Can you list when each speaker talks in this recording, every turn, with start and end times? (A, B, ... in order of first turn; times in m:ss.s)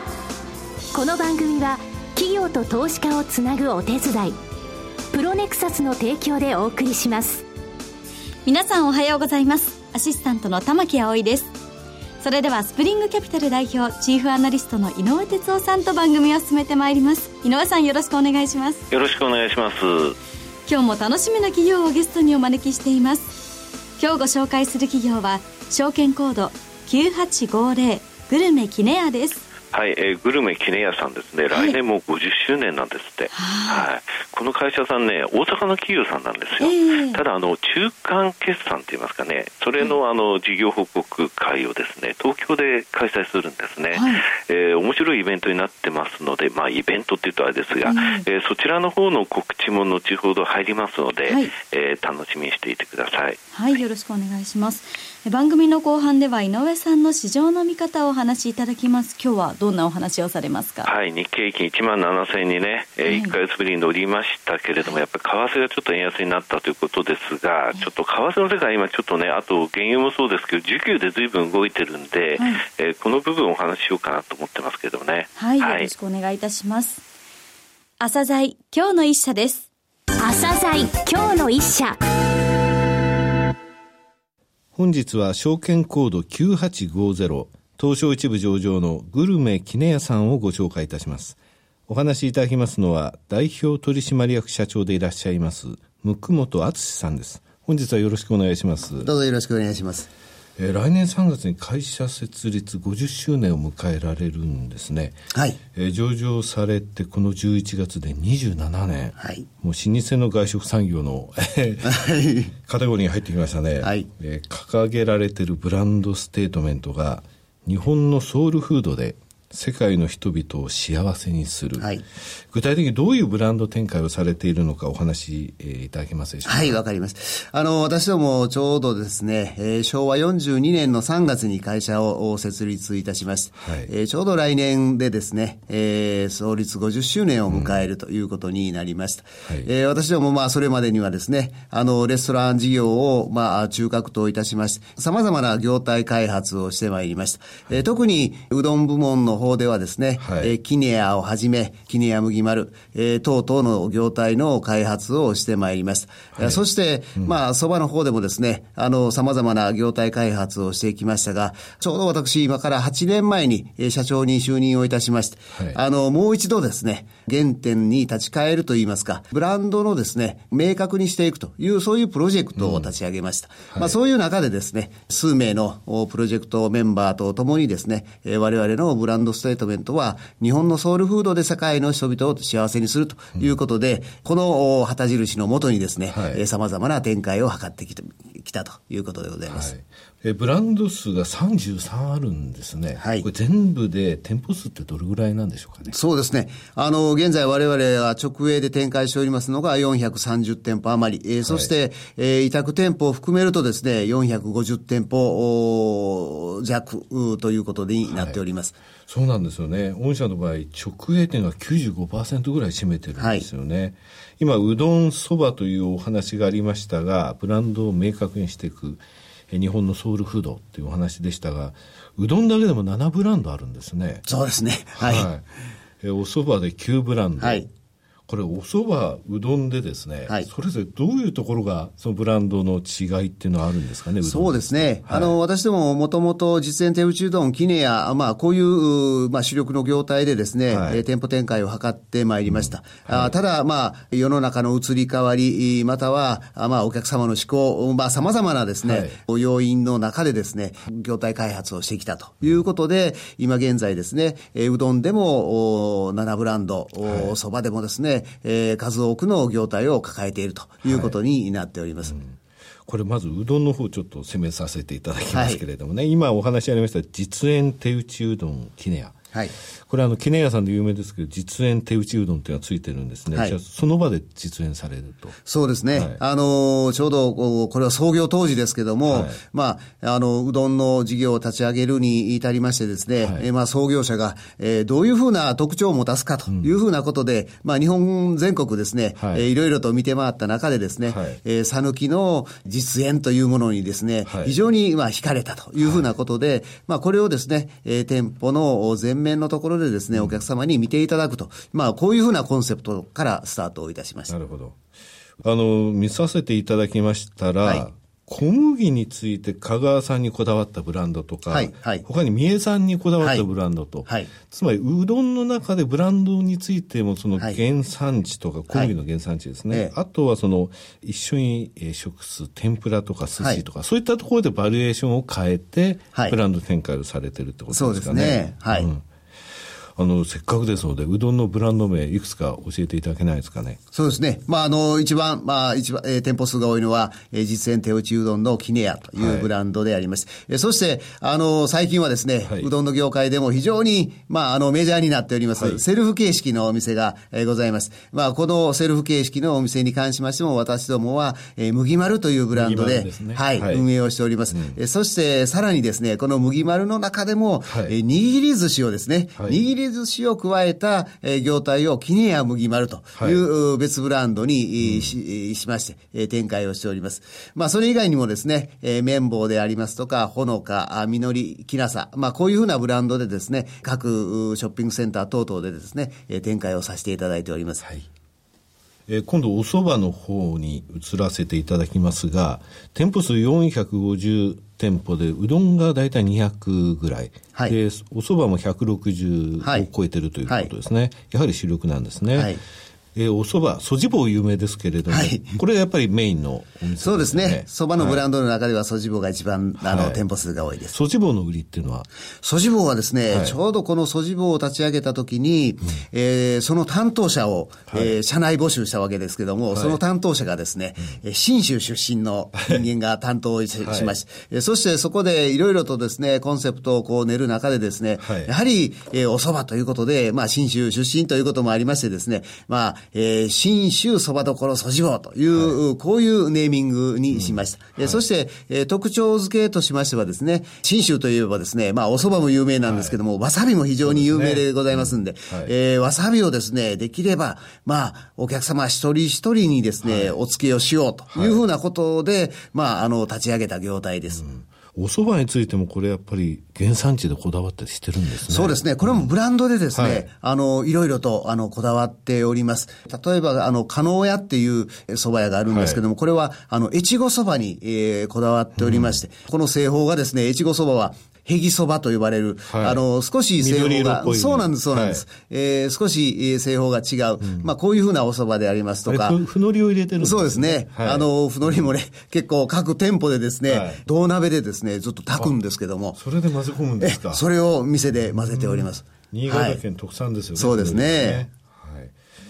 0:00.9-0:04.4 A
0:05.1-0:07.4 A
0:08.5-0:11.6 B
0:12.2-0:18.8 B
0:18.9-0:20.2 C
0:20.7-0:23.4 B
0:24.0-0:29.4 B
0:29.7-0:53.4 C
0:31.5-0:31.8 B
0:33.3-0:33.9 B
0:36.6-0:37.2 B
0:43.9-0:44.2 B
0:47.8-0:48.2 B
0:51.3-0:51.5 B
0:53.5-1:00.9 B
1:00.8-1:15.9 C
1:03.0-1:03.4 B
1:12.4-1:12.6 B
1:15.4-1:17.0 B
1:18.0-1:19.7 B
1:20.2-1:22.0 A
1:24.8-1:31.4 D
1:31.9-1:39.1 D
1:39.0-1:40.1 E
1:40.6-1:52.1 D
1:49.2-1:49.5 E
1:51.9-1:52.5 E
1:52.7-2:01.9 D
1:53.8-1:54.1 E
2:01.8-2:02.0 E
2:02.5-2:06.8 D
2:06.5-3:09.7 E
2:13.6-2:13.9 D
2:17.5-2:17.9 D
2:30.2-2:30.6 D
2:52.6-2:52.9 D
3:06.1-3:06.4 D
3:09.5-3:15.9 D
3:13.0-3:13.3 E
3:15.9-3:28.8 E
3:21.4-3:21.7 D
3:28.1-3:28.4 D
3:29.1-3:44.2 D
3:33.2-3:33.5 E
3:44.3-3:45.3 E
3:45.0-3:45.4 D
3:46.0-3:47.7 D
3:47.4-3:47.7 E
3:48.3-3:55.4 D
3:54.2-4:22.2 E
4:00.7-4:01.0 D
4:02.5-4:03.4 D
4:08.8-4:09.2 D
4:17.0-4:17.3 D
4:20.8-4:21.2 D
4:22.0-4:29.2 D
4:25.3-4:25.6 E
4:29.8-4:35.4 D
4:35.5-5:04.3 E
4:35.9-4:36.2 D
4:39.1-4:39.4 D
4:43.2-4:43.4 D
4:49.2-4:49.5 D
4:51.0-4:51.4 D
4:54.2-4:54.6 D
4:55.8-4:56.1 D
5:00.1-5:00.4 D
5:04.3-5:04.8 D
5:05.4-5:29.0 D
5:11.5-5:12.0 E
5:13.2-5:13.4 E
5:14.1-5:14.3 E
5:27.7-5:28.9 E
5:30.0-5:33.8 D
5:33.9-6:17.8 E
5:39.2-5:39.5 D
5:42.4-5:42.7 D
5:45.6-5:45.8 D
5:52.5-5:53.8 D
5:54.5-5:54.8 D
5:57.7-5:58.0 D
5:59.4-5:59.6 D
6:03.2-6:03.4 D
6:04.8-6:05.2 D
6:19.1-6:32.5 D
6:29.6-6:29.9 E
6:32.3-6:32.6 E
6:33.2-6:38.2 D
6:35.1-6:35.6 E
6:37.0-6:41.0 E
6:39.8-6:40.2 D
6:40.9-6:42.1 D
6:42.4-7:24.4 E
6:43.3-6:43.6 D
6:47.9-6:48.2 D
6:49.7-6:50.0 D
6:53.8-6:54.2 D
6:58.2-6:58.5 D
7:05.5-7:05.8 D
7:07.3-7:08.2 D
7:12.9-7:13.2 D
7:14.0-7:15.7 D
7:20.0-7:20.4 D
7:21.3-7:21.6 D
7:24.3-7:29.3 D
7:28.5-7:49.4 E
7:29.9-7:30.3 D
7:35.7-7:36.0 D
7:38.8-7:39.2 D
7:42.7-7:43.0 D
7:43.6-7:45.2 D
7:47.4-7:47.7 D
7:49.0-7:51.9 D
7:50.2-7:56.2 E
7:53.7-7:54.0 D
7:56.1-7:57.4 D
7:57.0-7:59.8 E
7:58.1-8:02.1 D
8:00.6-8:01.4 E